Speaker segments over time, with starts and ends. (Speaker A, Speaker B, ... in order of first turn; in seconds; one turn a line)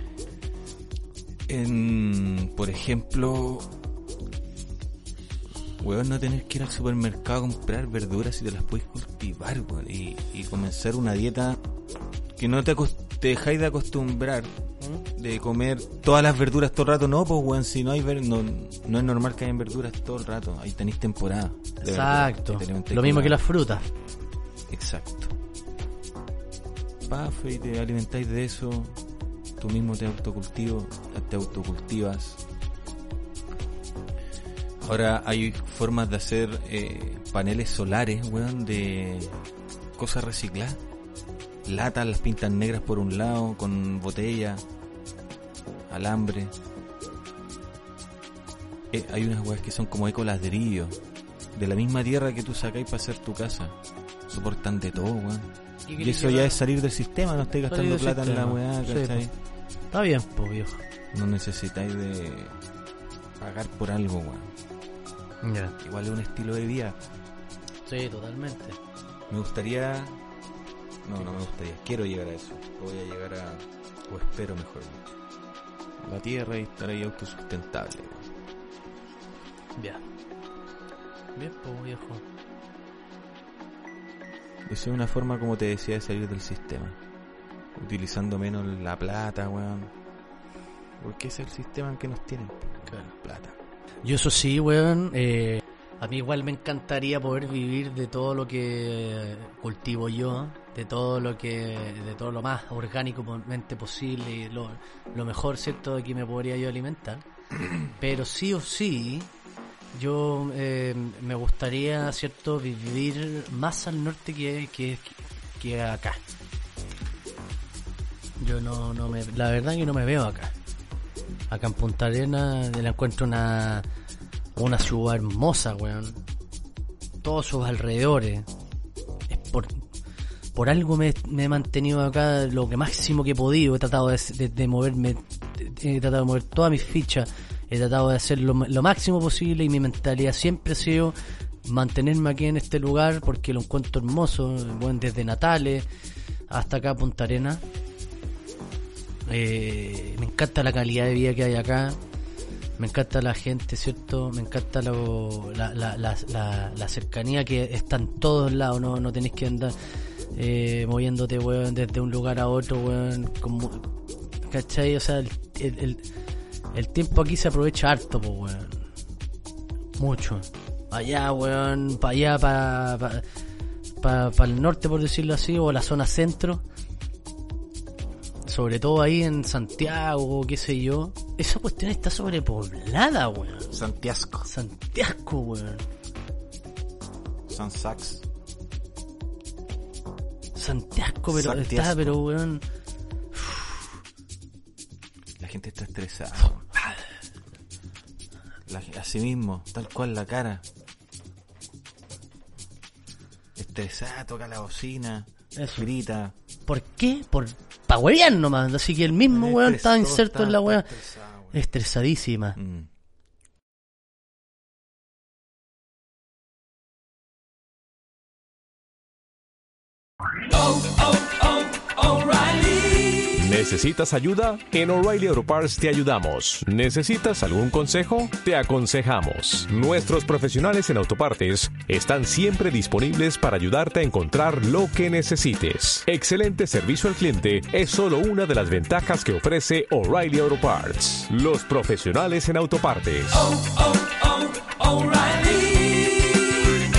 Speaker A: 1.5-3.7
Speaker A: 5.8-11.6
Speaker A: 12.4-14.5
Speaker A: 15.1-23.4
Speaker B: 21.8-23.9
Speaker A: 24.7-25.3
Speaker A: 27.1-29.0
Speaker A: 29.6-32.4
Speaker A: 34.8-39.4
Speaker A: 40.0-40.8
Speaker A: 41.6-44.6
Speaker A: 45.9-46.5
Speaker A: 48.9-51.0
Speaker A: 51.5-53.8
Speaker A: 54.3-59.3
Speaker B: 55.9-56.6
Speaker B: 57.7-59.2
Speaker B: 59.9-60.8
Speaker A: 61.1-62.6
Speaker A: 63.4-64.5
Speaker B: 65.4-65.8
Speaker A: 65.8-67.0
Speaker B: 67.9-68.8
Speaker A: 69.3-70.2
Speaker A: 71.0-75.1
Speaker A: 76.0-78.3
Speaker B: 79.8-80.0
Speaker B: 81.4-82.2
Speaker A: 84.7-87.0
Speaker A: 87.8-89.9
Speaker A: 91.0-93.6
Speaker B: 94.0-107.2
Speaker B: 107.9-109.3
Speaker B: 109.9-116.2
Speaker B: 118.4-120.5
Speaker B: 121.5-123.9
Speaker B: 124.6-126.2
Speaker B: 127.2-128.5
Speaker B: 129.3-129.8
Speaker B: 130.6-145.9
Speaker B: 146.5-147.6
Speaker B: 149.3-152.0
Speaker B: 152.8-159.8
Speaker B: 160.3-163.9
Speaker B: 164.4-166.0
Speaker B: 166.7-168.9
Speaker B: 170.0-173.2
Speaker B: 174.0-176.6
Speaker B: 178.4-183.7
Speaker A: 183.7-184.5
Speaker B: 184.4-185.9
Speaker A: 187.5-188.2
Speaker B: 190.6-192.6
Speaker A: 191.3-192.2
Speaker B: 193.3-193.8
Speaker A: 195.4-196.7
Speaker A: 198.7-200.6
Speaker A: 203.6-206.3
Speaker B: 205.6-205.9
Speaker B: 206.7-210.9
Speaker A: 209.3-211.7
Speaker B: 211.5-212.6
Speaker A: 212.6-212.9
Speaker C: 220.5-246.7